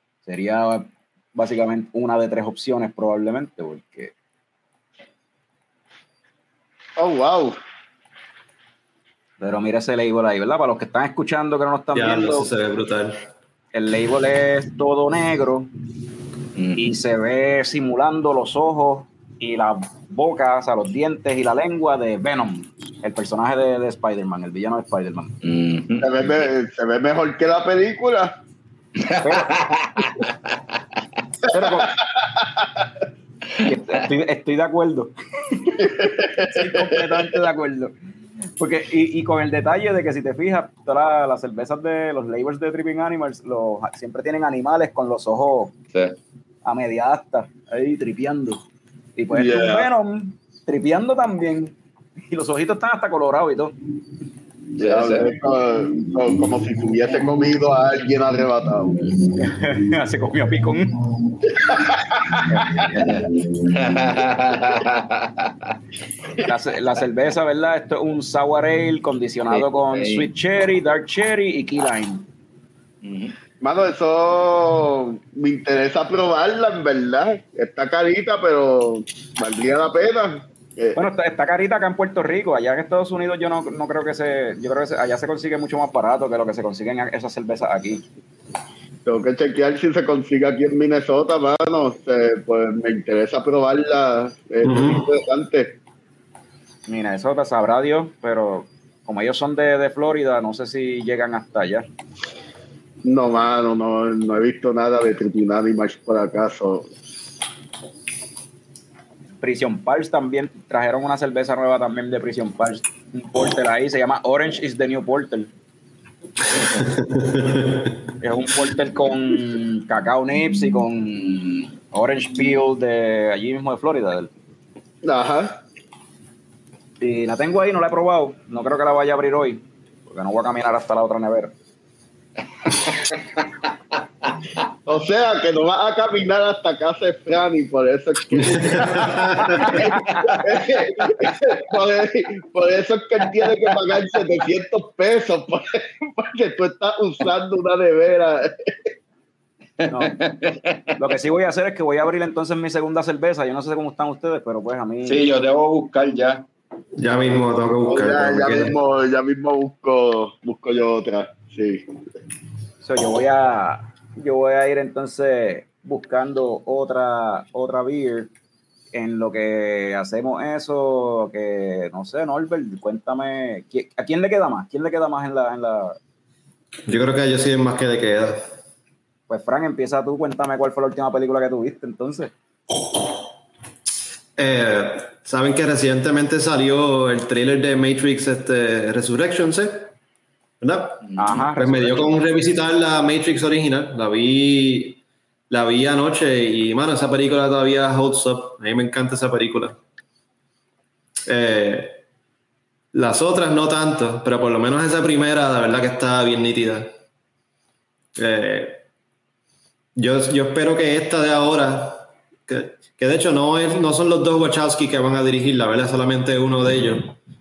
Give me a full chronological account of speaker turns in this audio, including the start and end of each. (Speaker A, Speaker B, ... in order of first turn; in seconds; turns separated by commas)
Speaker A: 0.2-4.1, Speaker B: 7.0-7.6, Speaker A: 9.4-12.5, Speaker C: 11.9-13.3, Speaker A: 13.7-15.7, Speaker D: 16.5-16.8, Speaker A: 16.8-25.4, Speaker D: 25.4-26.4, Speaker B: 26.0-28.3, Speaker D: 29.0-30.3, Speaker A: 29.2-30.0, Speaker A: 31.5-32.0, Speaker B: 31.5-32.9, Speaker A: 33.6-37.9, Speaker B: 35.8-37.3, Speaker A: 38.6-45.7, Speaker A: 46.6-48.6, Speaker A: 49.1-51.8, Speaker B: 49.3-49.9, Speaker A: 52.3-53.8, Speaker D: 54.8-55.4, Speaker B: 54.8-59.0, Speaker A: 59.3-61.0, Speaker B: 61.5-62.2, Speaker A: 62.4-63.2, Speaker D: 63.0-65.7, Speaker A: 66.4-72.3, Speaker D: 69.5-70.3, Speaker D: 73.0-73.3, Speaker B: 73.6-81.1, Speaker A: 81.0-88.0, Speaker B: 89.0-95.8, Speaker C: 94.6-95.1, Speaker A: 96.9-101.9, Speaker B: 103.0-106.9, Speaker A: 109.4-115.5, Speaker C: 116.8-118.0, Speaker A: 118.2-124.3, Speaker B: 125.0-125.6, Speaker A: 127.0-131.5, Speaker B: 134.8-148.9, Speaker C: 138.3-139.9, Speaker A: 139.6-140.3, Speaker D: 149.8-150.9, Speaker A: 149.9-150.1, Speaker A: 151.0-155.2, Speaker D: 155.0-156.4, Speaker C: 156.9-158.7, Speaker B: 157.8-161.9, Speaker A: 162.8-168.3, Speaker A: 168.9-176.0, Speaker C: 176.9-178.4, Speaker A: 179.3-182.3, Speaker C: 184.4-189.9, Speaker C: 190.6-199.8, Speaker D: 191.0-191.3, Speaker A: 191.2-192.1, Speaker C: 201.3-202.0, Speaker C: 202.9-206.9, Speaker C: 208.2-208.8, Speaker C: 209.9-217.1